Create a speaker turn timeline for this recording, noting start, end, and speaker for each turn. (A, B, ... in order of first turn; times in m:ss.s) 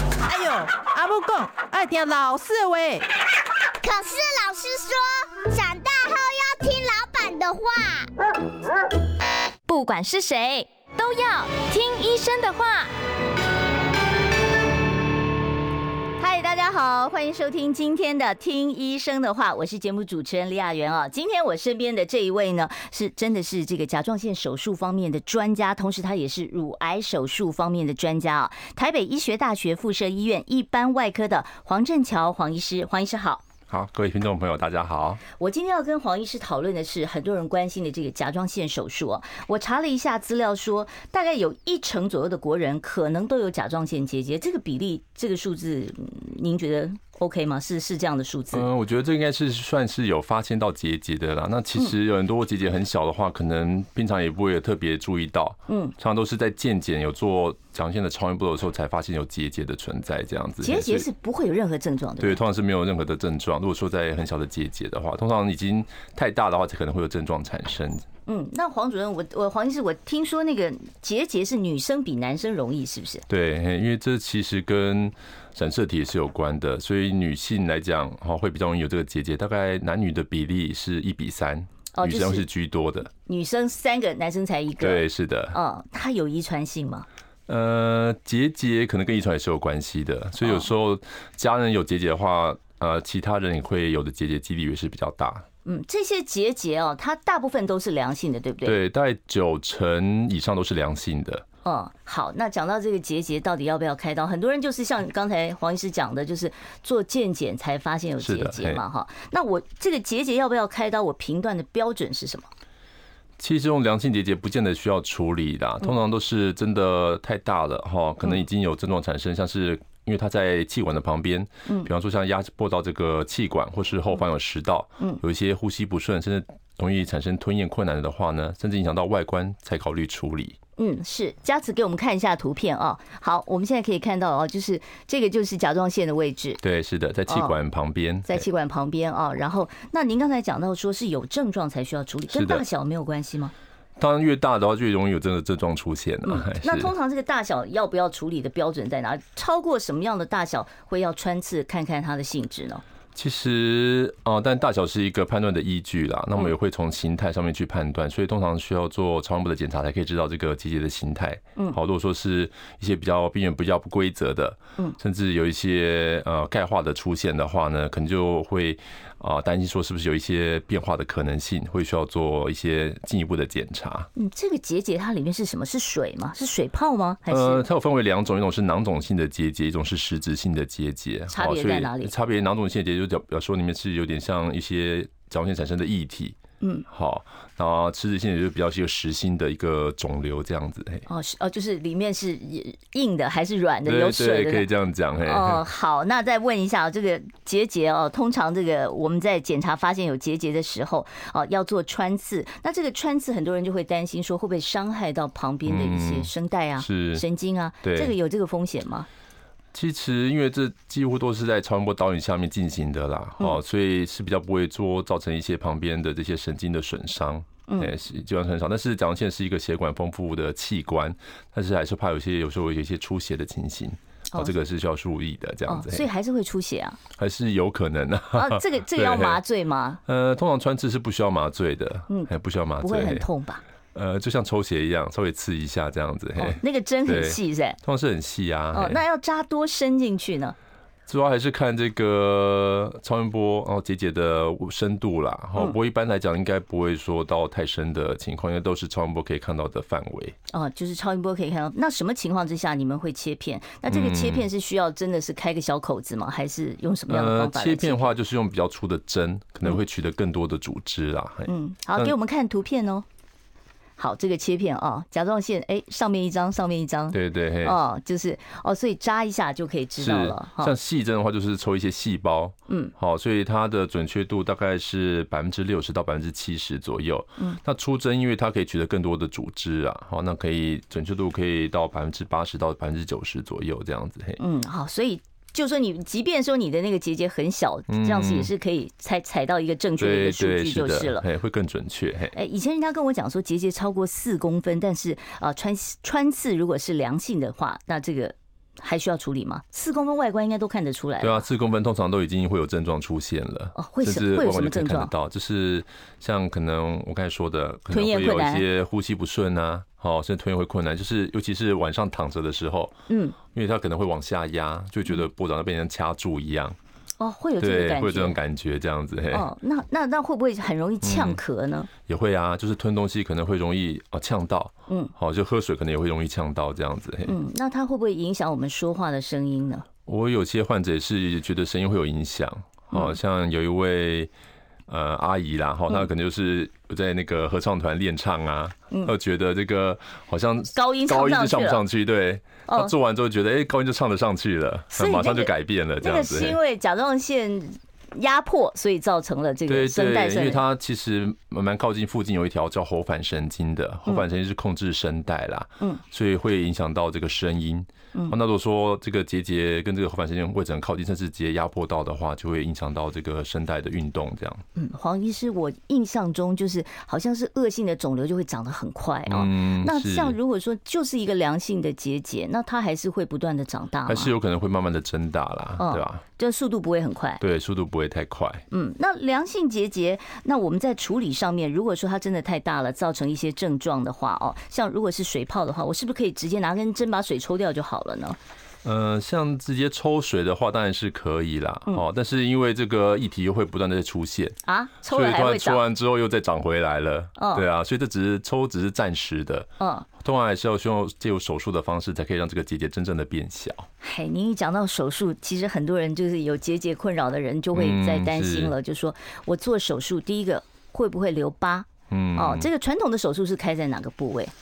0:00.2-0:03.0 A
0:03.8-0:08.1 B
0:09.7-0:12.9 C
0:16.2-0:33.4 C
0:33.7-0:35.2 D
0:35.4-0:48.6 C
0:48.5-1:01.1 D
0:55.7-0:55.9 C
1:00.6-1:02.4 C
1:02.2-1:08.0 D
1:08.2-1:13.2 C
1:13.3-1:23.1 D
1:21.9-1:22.5 C
1:23.2-1:27.1 C
1:24.8-1:25.6 D
1:27.5-1:35.4 D
1:35.6-1:38.8 C
1:38.6-1:41.4 D
1:41.6-1:52.5 C
1:48.2-1:48.8 D
1:53.4-2:10.6 D
2:10.8-2:16.6 C
2:16.6-2:18.4 D
2:17.3-2:17.5 C
2:18.2-2:23.5 C
2:22.3-2:22.6 D
2:24.0-2:26.9 D
2:26.2-2:32.8 C
2:33.1-2:54.1 D
2:54.1-2:57.6 C
2:57.3-3:06.4 D
3:01.3-3:02.1 C
3:06.6-3:06.8 C
3:06.9-3:11.0 D
3:11.1-3:14.7 C
3:13.8-3:15.6 D
3:15.2-3:29.1 C
3:25.6-3:27.2 D
3:27.8-3:28.1 D
3:29.7-3:46.1 D
3:37.7-3:37.9 C
3:45.7-3:47.0 C
3:47.2-3:49.4 D
3:48.3-3:50.0 C
3:50.0-3:53.2 D
3:52.1-3:53.6 C
3:53.9-3:59.0 D
3:56.4-3:57.8 C
3:58.7-4:00.5 C
4:01.1-4:10.4 D
4:10.5-4:18.1 C
4:13.9-4:14.4 D
4:17.1-4:22.1 D
4:21.5-4:23.0 C
4:24.0-4:30.7 C
4:27.1-4:27.8 D
4:30.0-4:44.4 D
4:44.4-4:51.2 C
4:47.9-4:48.5 D
4:50.0-4:52.3 D
4:52.3-5:01.4 C
5:01.2-5:13.0 D
5:03.7-5:05.1 C
5:07.9-5:08.6 C
5:13.1-5:13.4 C
5:13.5-5:16.8 D
5:17.2-5:18.4 C
5:17.6-5:19.5 D
5:19.3-5:21.9 C
5:21.0-5:21.4 D
5:22.0-5:27.3 D
5:27.2-5:29.8 C
5:30.0-5:34.3 D
5:32.9-5:33.2 C
5:34.9-5:46.6 D
5:40.7-5:41.8 C
5:42.7-5:42.9 C
5:44.9-5:50.6 C
5:49.6-6:04.6 D
6:04.8-6:14.3 C
6:09.3-6:10.4 D
6:14.1-6:16.2 D
6:15.8-6:17.4 C
6:17.4-6:18.6 D
6:18.7-6:28.4 C
6:28.8-6:43.9 D
6:34.6-6:35.8 C
6:37.4-6:37.6 C
6:39.8-6:40.1 C
6:44.0-6:54.5 C
6:47.7-6:48.7 D
6:52.1-6:52.7 D